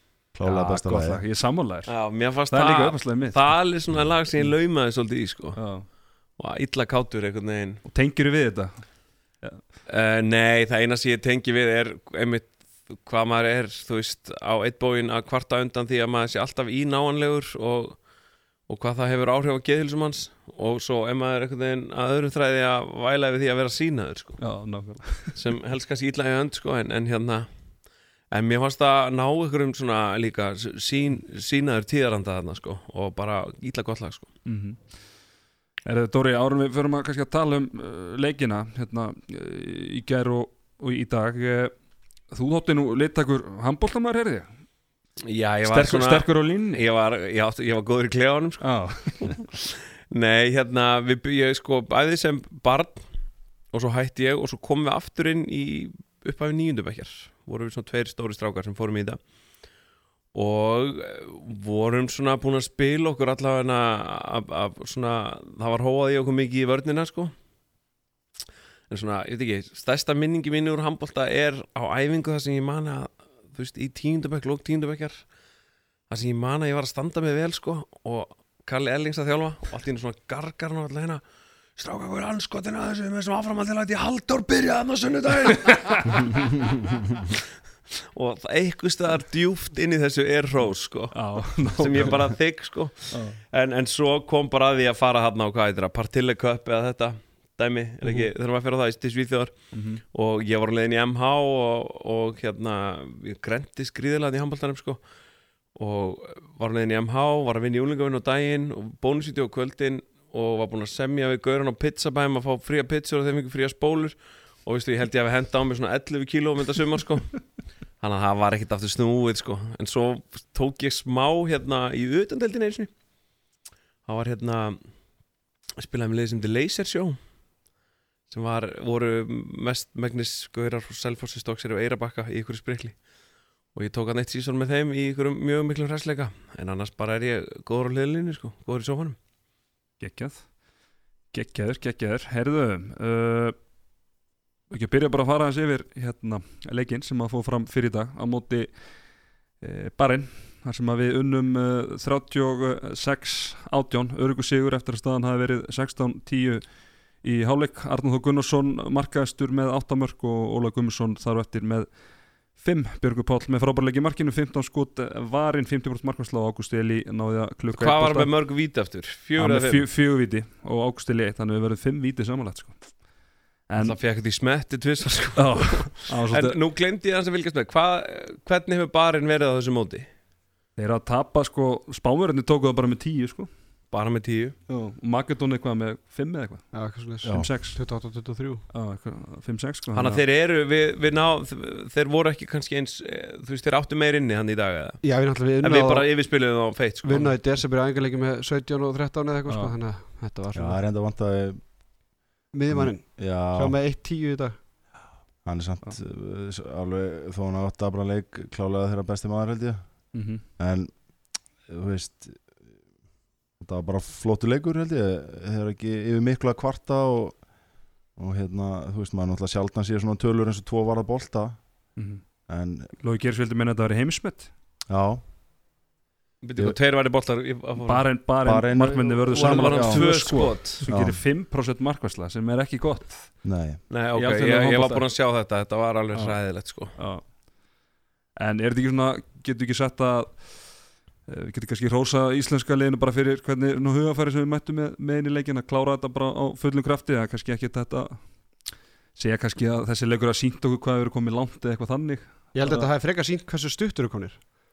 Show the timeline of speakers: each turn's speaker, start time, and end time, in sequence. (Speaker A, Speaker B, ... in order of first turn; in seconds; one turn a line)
Speaker A: 0.3-1.2
Speaker B: 0.4-3.4
Speaker C: 1.9-7.8
Speaker B: 5.6-5.9
Speaker B: 7.8-9.6
Speaker C: 9.9-18.0
Speaker C: 18.7-24.5
Speaker B: 24.4-25.4
Speaker C: 25.4-27.5
Speaker C: 28.3-34.3
Speaker B: 34.5-35.1
Speaker B: 35.9-41.8
Speaker B: 42.3-44.5
Speaker C: 45.3-53.1
Speaker B: 45.6-46.8
Speaker B: 48.6-49.4
Speaker C: 53.7-59.2
Speaker C: 60.3-67.3
Speaker C: 68.9-75.3
Speaker C: 76.1-81.2
Speaker C: 81.8-87.4
Speaker B: 85.7-86.2
Speaker C: 88.1-105.0
Speaker B: 91.1-92.3
Speaker B: 93.1-93.4
Speaker B: 98.0-98.3
Speaker B: 99.7-100.0
Speaker C: 105.8-117.4
Speaker C: 118.0-122.9
Speaker C: 124.1-124.8
Speaker C: 125.8-127.2
Speaker C: 128.3-133.0
Speaker C: 133.7-139.2
Speaker B: 140.0-140.5
Speaker B: 141.3-143.6
Speaker B: 144.7-148.8
Speaker B: 149.6-168.3
Speaker C: 167.7-169.9
Speaker B: 169.4-173.1
Speaker B: 173.7-174.0
Speaker C: 173.8-180.1
Speaker B: 175.4-176.6
Speaker B: 180.8-183.5
Speaker C: 183.9-184.6
Speaker B: 184.7-187.8
Speaker D: 186.7-188.6
Speaker A: 187.2-187.5
Speaker B: 188.7-190.2
Speaker C: 189.9-197.3
Speaker D: 195.0-196.3
Speaker D: 197.0-200.8
Speaker B: 199.5-199.7
Speaker A: 200.5-201.7
Speaker D: 202.5-204.6
Speaker A: 202.7-203.8
Speaker A: 205.4-210.9
Speaker B: 210.1-210.4
Speaker A: 211.7-212.6
Speaker A: 213.6-217.4
Speaker A: 218.2-221.8
Speaker B: 222.0-222.2
Speaker A: 222.5-222.9
Speaker B: 223.0-224.5
Speaker A: 224.9-225.2
Speaker C: 226.4-228.2
Speaker B: 227.8-233.4
Speaker A: 228.4-230.1
Speaker C: 229.0-230.8
Speaker A: 230.8-231.2
Speaker A: 233.4-233.8
Speaker C: 233.9-237.0
Speaker B: 234.1-235.1
Speaker B: 236.1-237.4
Speaker B: 238.4-252.9
Speaker D: 252.6-254.5